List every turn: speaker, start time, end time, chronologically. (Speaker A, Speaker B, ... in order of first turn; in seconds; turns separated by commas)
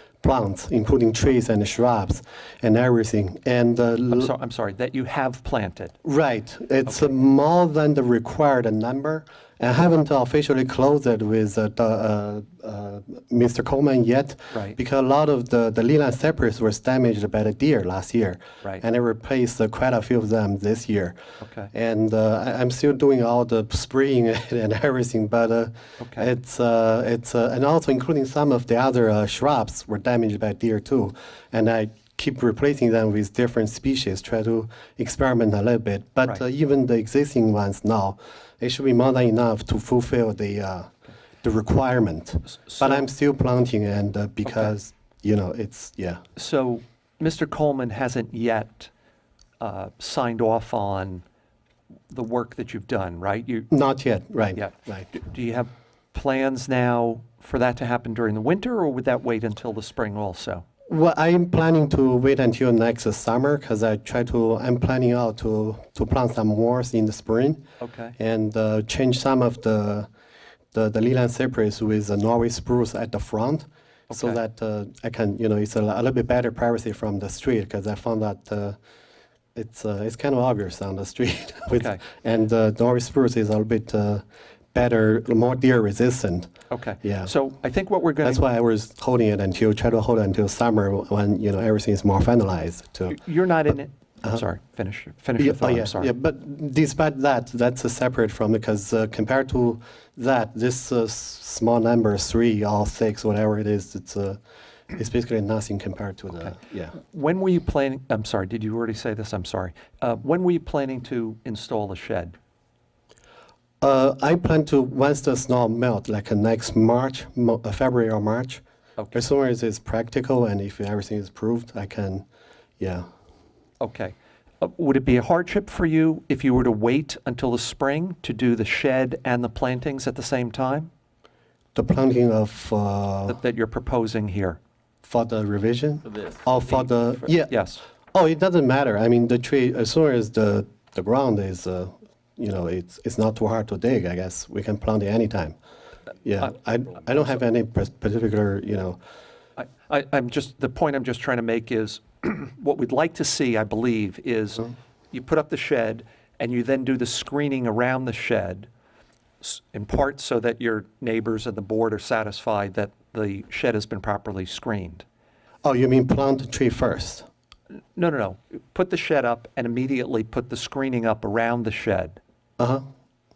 Speaker A: 0.2-4.3, Speaker B: 4.1-6.0, Speaker A: 6.0-21.2, Speaker B: 14.5-14.8, Speaker B: 21.4-21.7, Speaker A: 21.7-46.2, Speaker B: 26.0-26.3, Speaker B: 42.7-43.0, Speaker B: 44.5-44.7, Speaker B: 46.4-48.9, Speaker B: 49.6-51.2, Speaker B: 52.1-53.7, Speaker A: 53.7-55.1, Speaker B: 54.5-60.6, Speaker A: 60.9-67.6, Speaker B: 67.8-68.2, Speaker A: 68.2-70.1, Speaker A: 70.7-78.8, Speaker B: 74.1-74.4, Speaker A: 79.5-86.5, Speaker B: 81.8-82.0, Speaker B: 86.7-88.4, Speaker A: 87.0-87.3, Speaker A: 88.2-93.2, Speaker B: 93.1-96.1, Speaker A: 95.4-104.4, Speaker A: 104.9-107.0, Speaker B: 106.3-112.3, Speaker A: 113.8-122.2, Speaker A: 122.8-123.1, Speaker B: 123.8-130.9, Speaker A: 131.8-133.4, Speaker B: 133.3-134.6, Speaker A: 135.0-145.6, Speaker B: 137.5-137.8, Speaker A: 146.2-149.0, Speaker B: 149.6-158.7, Speaker B: 159.4-165.1, Speaker A: 165.6-167.2, Speaker B: 167.9-172.2